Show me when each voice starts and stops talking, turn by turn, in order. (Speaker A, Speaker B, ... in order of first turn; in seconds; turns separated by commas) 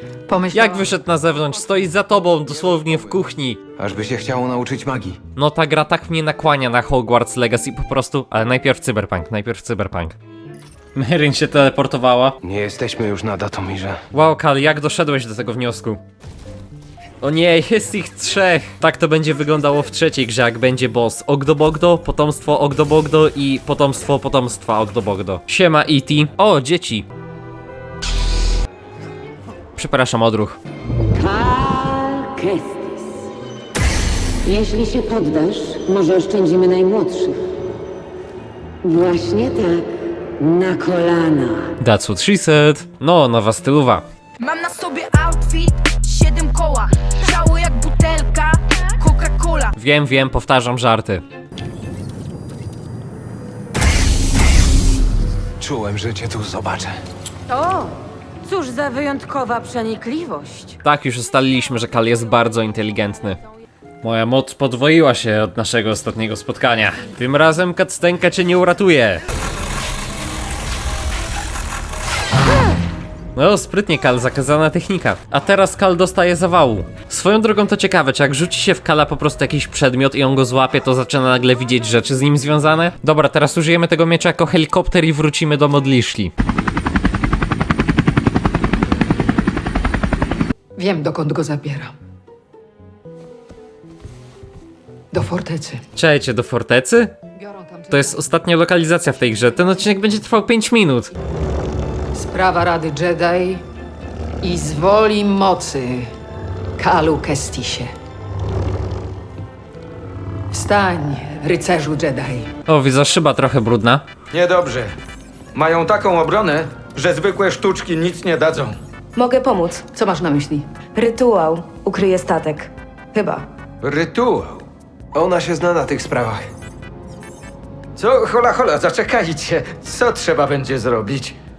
Speaker A: 0.3-0.9, Speaker B: 0.5-3.6, Speaker C: 3.8-5.2, Speaker B: 5.3-10.2, Speaker B: 10.9-12.4, Speaker C: 12.4-14.0, Speaker B: 14.1-16.0, Speaker B: 17.2-27.1, Speaker B: 29.8-30.6, Speaker D: 31.1-33.0, Speaker D: 34.4-37.4, Speaker D: 38.8-39.9, Speaker D: 40.4-41.7, Speaker B: 41.8-44.0, Speaker E: 44.4-49.7, Speaker B: 49.8-51.2, Speaker C: 55.6-56.9, Speaker D: 57.5-60.8, Speaker B: 60.8-63.4, Speaker B: 64.0-69.2, Speaker B: 73.3-86.3, Speaker A: 90.8-91.9, Speaker A: 95.1-95.8, Speaker B: 96.0-97.2, Speaker A: 97.3-98.2, Speaker B: 97.9-101.1, Speaker A: 102.1-103.6, Speaker A: 104.4-106.1, Speaker A: 106.8-107.9, Speaker A: 110.5-112.5, Speaker B: 112.7-114.0, Speaker F: 114.3-114.9, Speaker F: 115.5-118.8, Speaker G: 119.2-119.8, Speaker A: 119.9-120.7, Speaker G: 120.9-123.5, Speaker F: 123.8-124.6, Speaker C: 125.1-126.4, Speaker F: 128.0-131.3